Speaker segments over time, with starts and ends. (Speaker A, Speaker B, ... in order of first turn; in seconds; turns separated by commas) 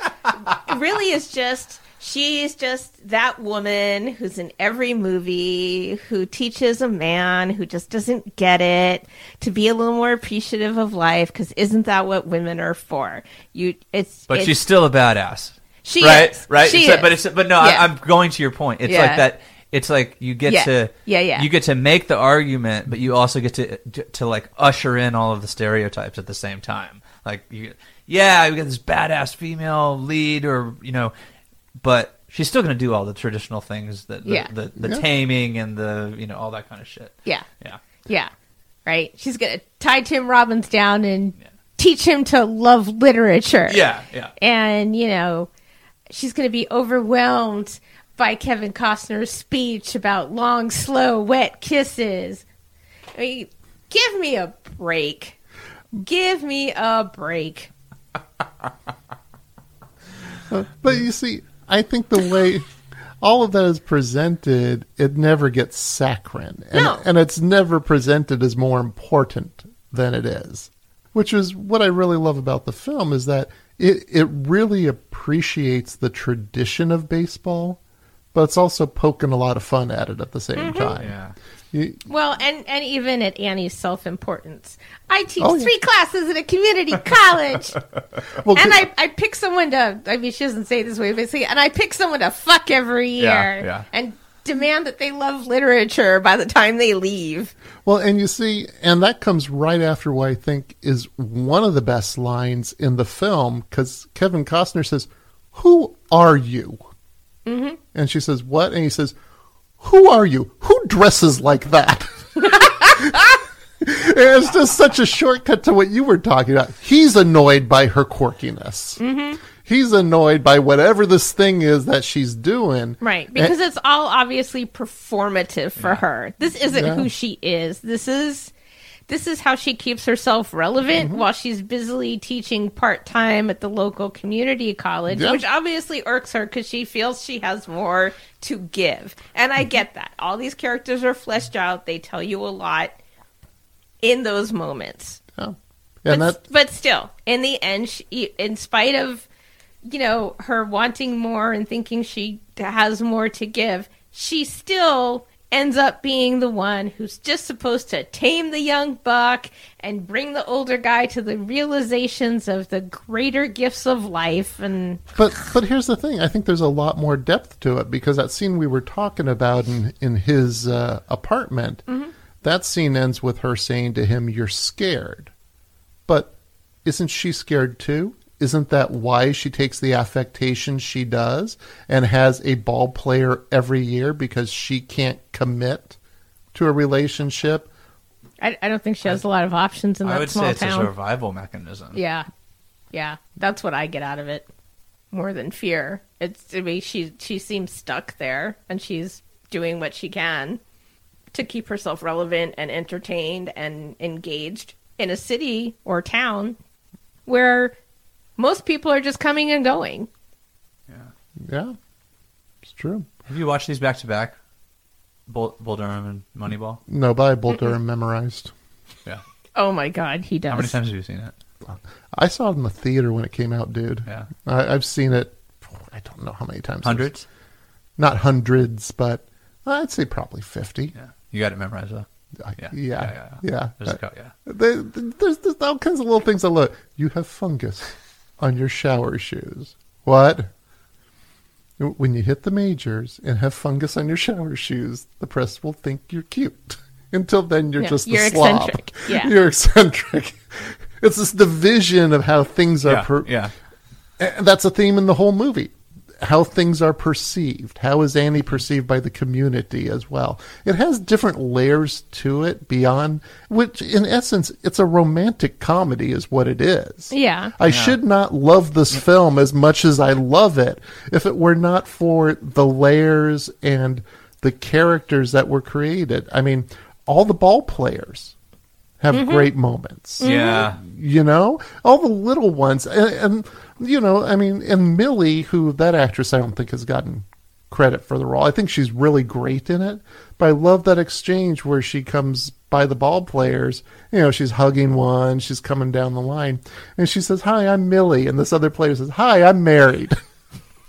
Speaker A: 0.4-14.6, Speaker B: 14.3-31.1, Speaker A: 15.8-17.9, Speaker A: 18.9-19.2, Speaker A: 20.4-21.5, Speaker B: 31.8-37.8, Speaker A: 34.2-34.5, Speaker C: 34.8-35.0, Speaker A: 38.0-38.3, Speaker A: 38.9-43.8, Speaker B: 43.7-44.3, Speaker A: 44.4-45.5, Speaker A: 46.1-52.4, Speaker A: 53.1-55.4, Speaker A: 56.0-57.7, Speaker C: 60.5-62.7, Speaker C: 63.2-77.8, Speaker A: 66.7-67.0, Speaker C: 78.3-81.1, Speaker A: 80.5-81.0, Speaker B: 81.0-81.3, Speaker C: 81.7-82.0, Speaker A: 82.1-87.8, Speaker C: 85.4-85.7, Speaker C: 88.4-88.9, Speaker A: 88.5-97.5, Speaker B: 93.2-93.8, Speaker C: 97.8-106.8, Speaker A: 107.5-107.8, Speaker C: 107.9-109.1, Speaker C: 109.8-119.0, Speaker A: 112.5-112.9, Speaker A: 119.0-119.4, Speaker C: 119.6-123.5, Speaker A: 123.0-128.5, Speaker C: 126.7-127.1, Speaker A: 129.1-143.0, Speaker C: 131.0-131.2, Speaker C: 135.1-135.4, Speaker A: 144.0-145.2, Speaker C: 145.3-146.4, Speaker A: 146.1-149.3, Speaker A: 149.8-165.2, Speaker C: 165.2-171.8, Speaker C: 172.4-175.3, Speaker C: 176.1-176.3, Speaker C: 176.8-186.0, Speaker C: 186.5-187.7, Speaker A: 188.4-190.9, Speaker B: 190.0-192.0, Speaker A: 191.9-192.3, Speaker A: 192.9-194.4, Speaker A: 195.1-200.6, Speaker A: 201.3-206.6, Speaker A: 207.2-207.7, Speaker A: 208.4-210.1, Speaker C: 211.5-211.7, Speaker C: 212.6-213.1, Speaker B: 213.3-214.3, Speaker B: 215.3-216.8, Speaker C: 216.9-218.5, Speaker A: 219.6-220.8, Speaker B: 220.5-221.3, Speaker C: 221.7-227.1, Speaker B: 226.8-227.2, Speaker C: 228.0-230.9, Speaker B: 230.9-232.1, Speaker C: 232.4-240.5, Speaker B: 232.6-234.3, Speaker C: 241.8-253.3, Speaker A: 247.8-249.3, Speaker B: 252.8-253.5, Speaker C: 254.2-278.3, Speaker A: 267.1-267.5, Speaker B: 267.7-267.9, Speaker C: 279.0-300.1, Speaker A: 279.1-279.5, Speaker A: 280.2-280.7, Speaker B: 280.2-280.8